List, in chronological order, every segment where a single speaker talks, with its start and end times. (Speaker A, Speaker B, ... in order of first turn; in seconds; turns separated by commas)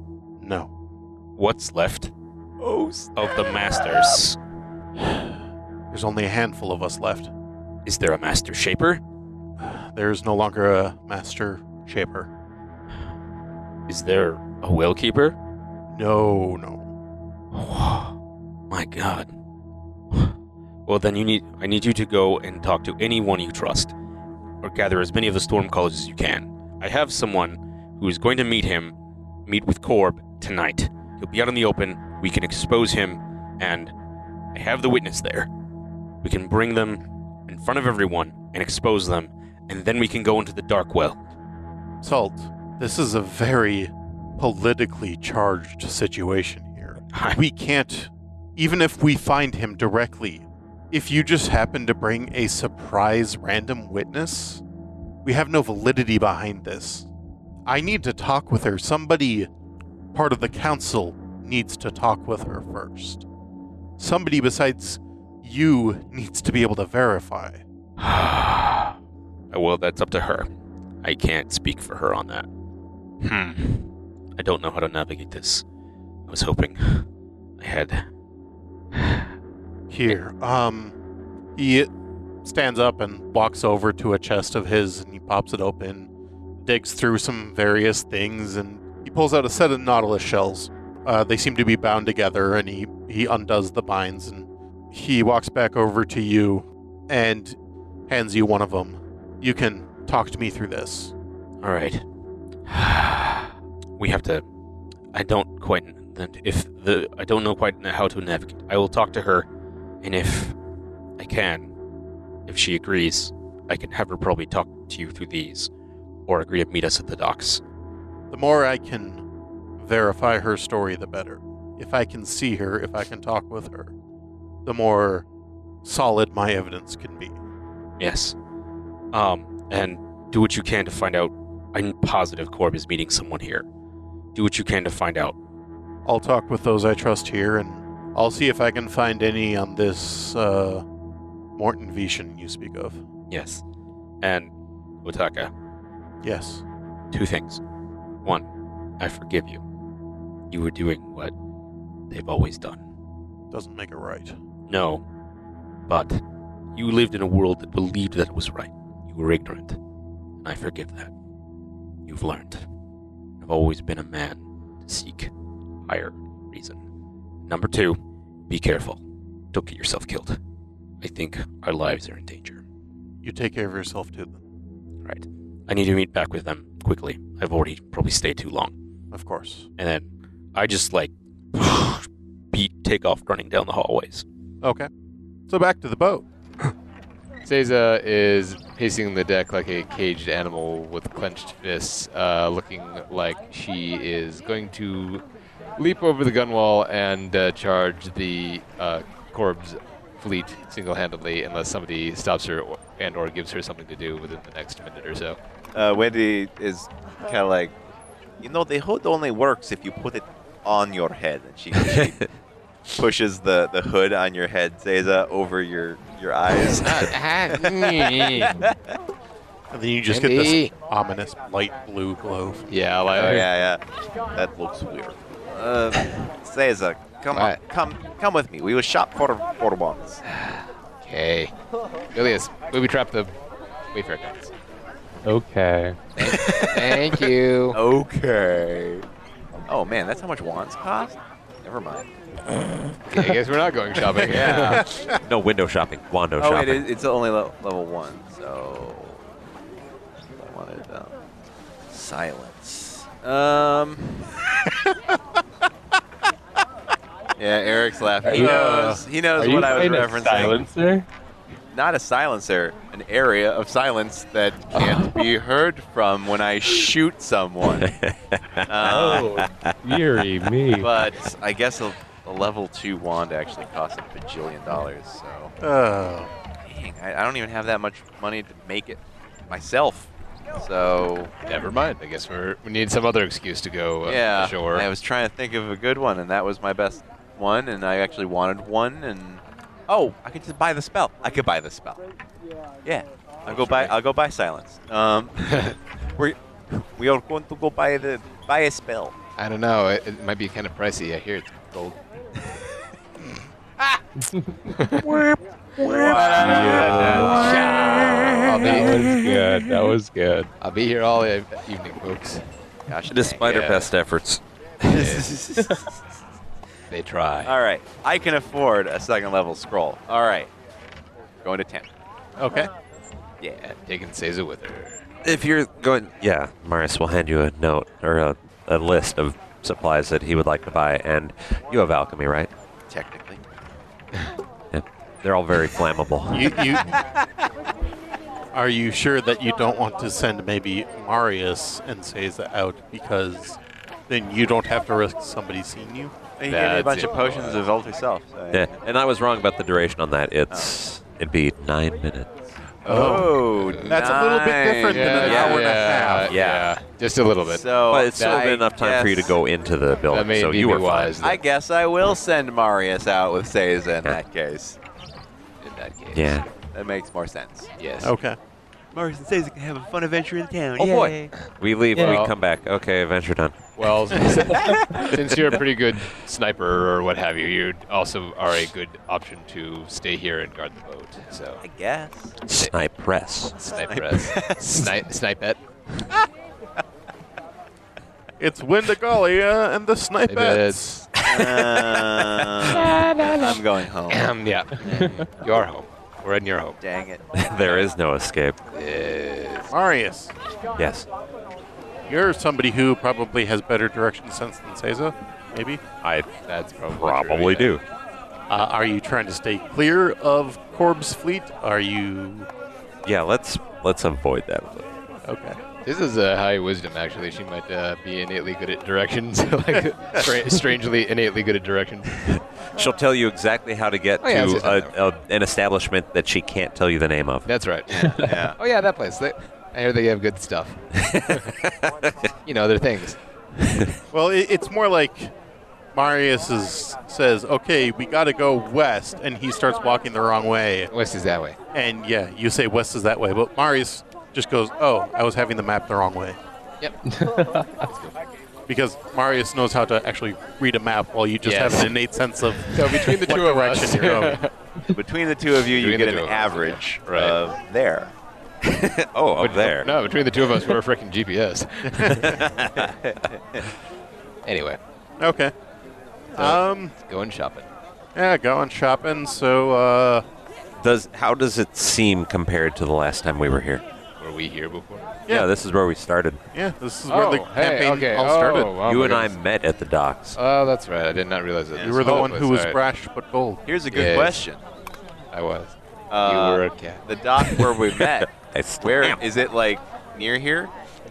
Speaker A: 0.4-0.7, Speaker B: 1.4-2.1, Speaker C: 2.6-3.5, Speaker B: 3.1-4.4, Speaker A: 5.0-5.3, Speaker A: 5.9-7.3, Speaker B: 7.8-9.0, Speaker A: 9.6-12.3, Speaker B: 13.9-15.3, Speaker A: 15.9-16.9, Speaker B: 17.5-18.1, Speaker B: 18.7-19.3, Speaker B: 20.1-23.9, Speaker B: 24.6-28.9, Speaker B: 29.4-33.9, Speaker B: 34.5-35.5, Speaker B: 36.2-41.2, Speaker A: 42.0-54.6, Speaker B: 47.1-47.4, Speaker A: 55.2-57.1, Speaker A: 57.6-59.5, Speaker A: 60.1-63.2, Speaker A: 64.0-67.6, Speaker B: 68.0-69.0, Speaker B: 69.5-70.5, Speaker B: 71.0-72.5, Speaker B: 73.2-75.6, Speaker B: 76.3-77.1, Speaker B: 77.6-78.1, Speaker B: 78.9-79.3, Speaker A: 79.9-80.9, Speaker A: 81.5-81.9, Speaker A: 82.4-86.1, Speaker A: 86.6-97.6, Speaker A: 98.1-101.1, Speaker B: 101.6-102.0, Speaker B: 102.7-104.4, Speaker B: 105.1-109.5, Speaker B: 110.0-110.5, Speaker B: 111.2-111.7, Speaker B: 112.5-115.7, Speaker B: 116.3-117.6, Speaker A: 118.3-119.2, Speaker A: 119.8-123.9, Speaker A: 124.6-125.2, Speaker A: 125.8-127.4, Speaker B: 128.0-128.3, Speaker B: 129.1-133.7, Speaker B: 134.3-135.3, Speaker A: 136.0-140.8, Speaker A: 141.6-143.0, Speaker B: 143.3-143.6, Speaker B: 144.2-144.5, Speaker B: 145.0-145.5, Speaker A: 146.2-146.6, Speaker B: 147.1-147.6, Speaker B: 149.0-149.6, Speaker B: 150.5-151.3, Speaker B: 152.1-152.8, Speaker A: 153.5-154.3, Speaker B: 154.7-155.0, Speaker B: 155.9-156.2, Speaker B: 156.7-159.8, Speaker B: 160.4-161.1, Speaker B: 162.1-162.7, Speaker B: 163.4-165.3, Speaker B: 165.8-166.8, Speaker B: 167.4-169.0, Speaker B: 169.5-170.4, Speaker B: 171.0-172.6, Speaker A: 173.2-174.4, Speaker B: 175.0-178.7, Speaker A: 179.1-179.7, Speaker B: 179.8-184.2, Speaker A: 184.6-184.9, Speaker A: 185.5-186.2, Speaker D: 187.4-195.2, Speaker D: 195.8-205.4, Speaker C: 205.7-207.7, Speaker C: 208.4-212.2, Speaker E: 211.8-212.2, Speaker C: 213.0-218.8, Speaker D: 216.6-218.6, Speaker A: 219.7-222.7, Speaker D: 220.1-220.7, Speaker D: 222.7-223.5, Speaker C: 223.1-223.8, Speaker C: 224.3-230.2, Speaker D: 227.3-227.6, Speaker D: 230.3-231.5, Speaker D: 232.1-233.3, Speaker D: 233.9-234.5, Speaker F: 235.2-236.1, Speaker D: 236.2-237.8, Speaker C: 236.2-237.1, Speaker C: 237.7-239.0, Speaker C: 239.7-242.1, Speaker D: 243.1-244.8, Speaker C: 244.1-244.8, Speaker A: 244.8-245.2, Speaker E: 245.2-246.8, Speaker C: 246.4-249.2, Speaker C: 250.4-251.2, Speaker C: 251.9-254.4, Speaker C: 257.4-260.6, Speaker F: 258.2-261.1, Speaker C: 261.7-267.9, Speaker F: 264.8-265.2, Speaker E: 267.8-269.6, Speaker C: 268.7-269.4, Speaker F: 268.8-271.1, Speaker C: 270.8-275.5, Speaker A: 275.6-276.3, Speaker C: 276.6-281.3, Speaker D: 281.4-284.9, Speaker C: 284.0-292.0, Speaker C: 292.8-299.1, Speaker D: 293.6-293.9, Speaker D: 295.5-295.7, Speaker D: 299.4-302.0, Speaker F: 304.2-304.5, Speaker D: 304.7-305.1, Speaker C: 305.8-308.5, Speaker F: 306.1-307.6, Speaker E: 306.4-307.4, Speaker D: 306.6-309.1, Speaker F: 308.5-310.5, Speaker D: 310.6-312.4, Speaker C: 312.9-313.5, Speaker E: 313.1-314.4, Speaker D: 313.4-313.9, Speaker D: 314.9-315.3, Speaker C: 314.9-315.9, Speaker D: 316.9-317.5, Speaker C: 317.4-320.5, Speaker C: 321.4-321.9, Speaker A: 322.4-322.7, Speaker D: 323.5-325.0, Speaker E: 325.2-332.5, Speaker C: 332.9-333.4, Speaker E: 334.7-336.6, Speaker A: 336.3-336.9, Speaker A: 338.5-346.1, Speaker C: 346.4-348.7, Speaker D: 346.5-347.6, Speaker E: 348.5-352.4, Speaker C: 352.8-355.5, Speaker A: 352.9-356.3, Speaker D: 353.5-354.0, Speaker D: 354.9-357.6, Speaker E: 355.2-355.6, Speaker E: 356.2-356.7, Speaker C: 357.4-359.4, Speaker E: 357.9-361.4, Speaker D: 358.2-358.4, Speaker D: 360.1-361.4, Speaker C: 361.2-364.8, Speaker D: 365.6-366.4, Speaker E: 366.1-366.4, Speaker C: 366.7-367.7, Speaker D: 367.8-368.1, Speaker A: 368.0-368.4, Speaker C: 368.9-371.3, Speaker E: 370.8-373.6, Speaker D: 371.3-372.3, Speaker D: 373.8-381.6, Speaker C: 374.5-375.1, Speaker C: 381.6-382.4, Speaker E: 382.4-383.6, Speaker D: 383.6-385.6, Speaker C: 383.7-384.9, Speaker A: 388.4-391.0, Speaker D: 390.3-391.1, Speaker C: 391.2-395.6, Speaker D: 392.6-396.8, Speaker C: 396.8-397.8, Speaker E: 397.3-398.6, Speaker D: 398.7-399.7, Speaker A: 399.7-400.3, Speaker E: 400.8-401.1, Speaker A: 402.1-405.8, Speaker E: 406.0-406.3, Speaker D: 406.5-407.8, Speaker E: 406.9-407.8, Speaker A: 408.5-412.5, Speaker E: 413.0-414.9, Speaker A: 415.2-415.6, Speaker D: 415.8-422.4, Speaker E: 422.3-427.5, Speaker D: 424.2-424.9, Speaker D: 427.4-431.4, Speaker C: 427.9-428.6, Speaker E: 430.9-432.3, Speaker D: 432.4-433.2, Speaker E: 433.6-433.9, Speaker A: 434.1-435.3, Speaker A: 435.9-440.9, Speaker D: 440.9-441.6, Speaker A: 441.7-446.4, Speaker F: 447.0-447.9, Speaker D: 447.8-448.1, Speaker A: 448.7-454.4, Speaker D: 451.4-451.9, Speaker D: 452.6-454.5, Speaker C: 454.9-458.1, Speaker D: 455.7-457.4, Speaker E: 458.6-459.9, Speaker D: 459.4-462.4, Speaker A: 461.9-462.2, Speaker E: 462.1-462.8, Speaker C: 462.4-463.6, Speaker D: 464.4-464.8, Speaker A: 465.2-465.5, Speaker A: 466.3-466.9, Speaker D: 466.4-467.7, Speaker A: 468.1-470.2, Speaker E: 470.8-473.8, Speaker D: 474.2-475.1, Speaker E: 475.3-476.4, Speaker A: 476.5-478.7, Speaker D: 477.1-479.3, Speaker E: 478.8-480.4, Speaker D: 480.4-482.8, Speaker C: 481.7-482.3, Speaker A: 481.8-483.6, Speaker C: 483.6-484.6, Speaker D: 483.9-484.4, Speaker D: 485.3-487.0, Speaker C: 486.1-490.7, Speaker E: 488.4-489.2